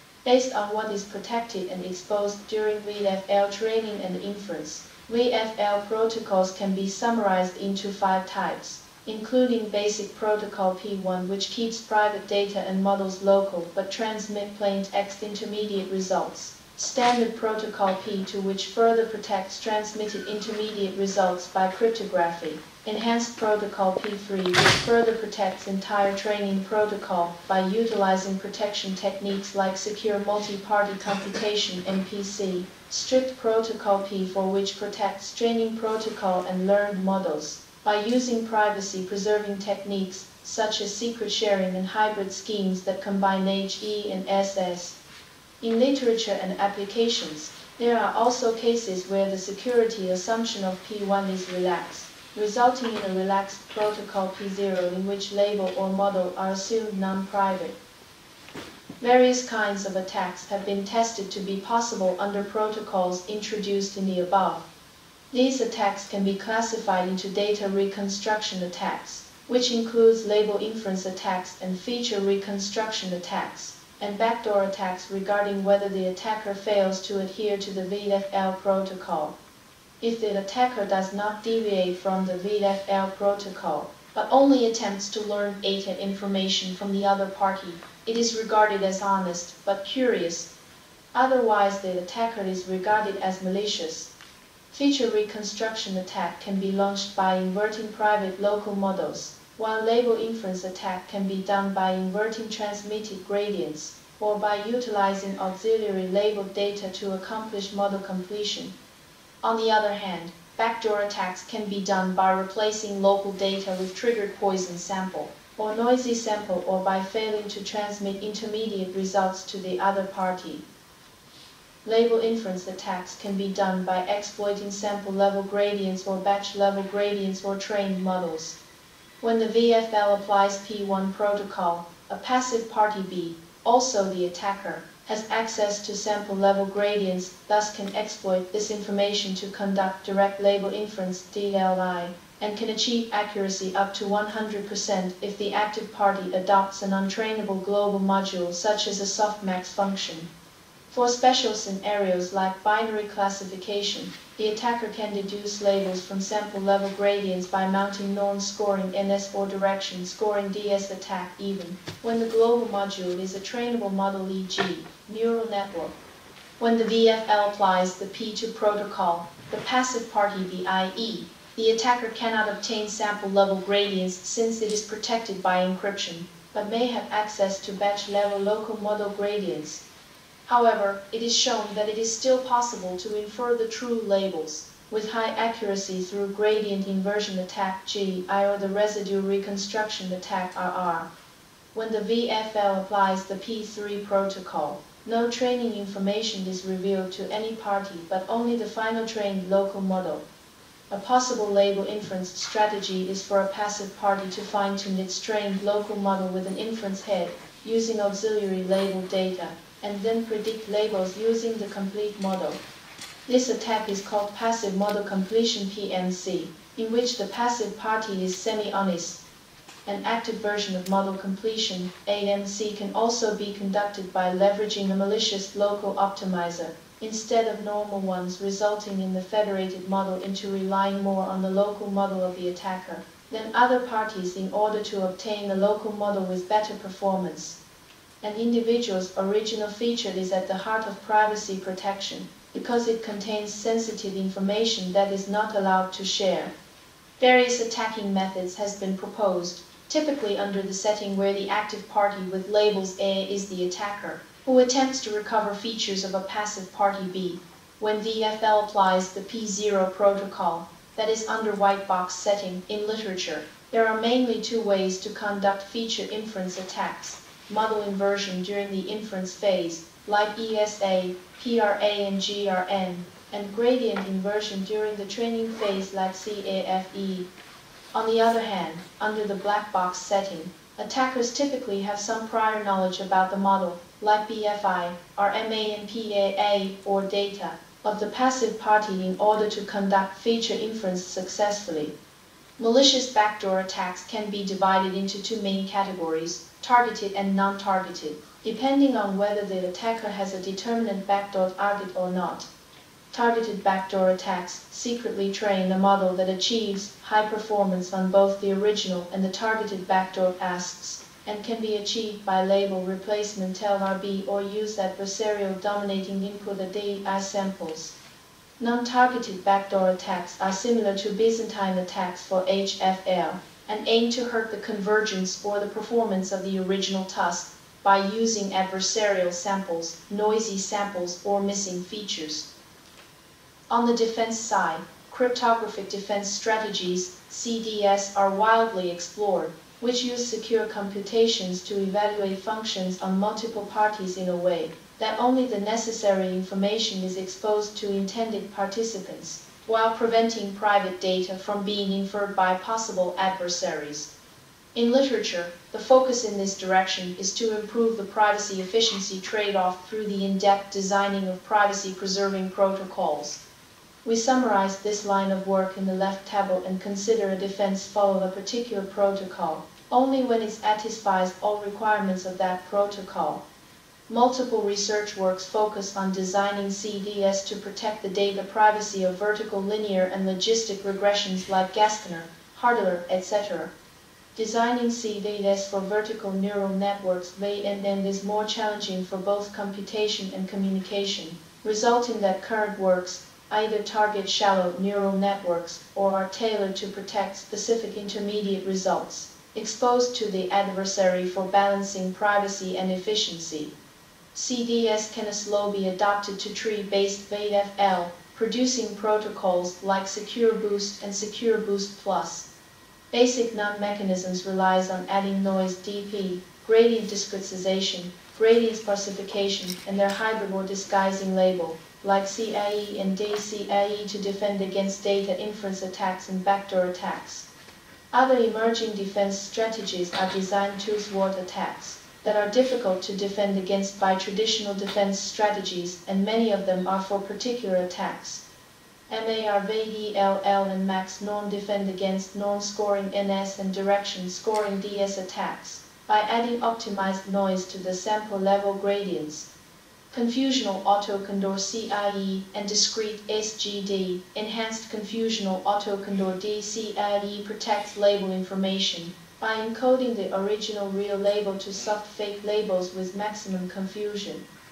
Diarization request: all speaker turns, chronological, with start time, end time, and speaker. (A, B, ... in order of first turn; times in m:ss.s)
0:00.2-0:45.0 A
0:45.6-0:57.8 A
0:59.0-1:04.7 A
1:05.3-1:19.4 A
1:20.0-1:30.5 A
1:31.1-1:34.1 A
1:34.7-1:48.7 A
1:49.4-2:00.6 A
2:01.8-2:08.6 A
2:09.2-2:30.3 A
2:30.9-2:45.9 A
2:46.6-2:59.8 A
3:00.4-3:11.1 A
3:11.7-3:20.2 A
3:20.9-3:32.6 A
3:33.3-3:39.2 A
3:39.8-3:57.6 A
3:58.2-4:06.5 A
4:07.2-4:37.3 A
4:37.9-4:51.9 A
4:52.6-5:02.5 A
5:03.1-5:17.9 A
5:18.6-5:32.5 A
5:33.7-5:54.1 A
5:54.7-6:03.4 A
6:04.0-6:13.4 A
6:14.1-6:23.7 A
6:24.3-6:43.7 A
6:44.3-6:52.5 A
6:53.1-7:07.5 A
7:08.1-7:18.4 A
7:19.1-7:29.5 A
7:30.1-7:44.4 A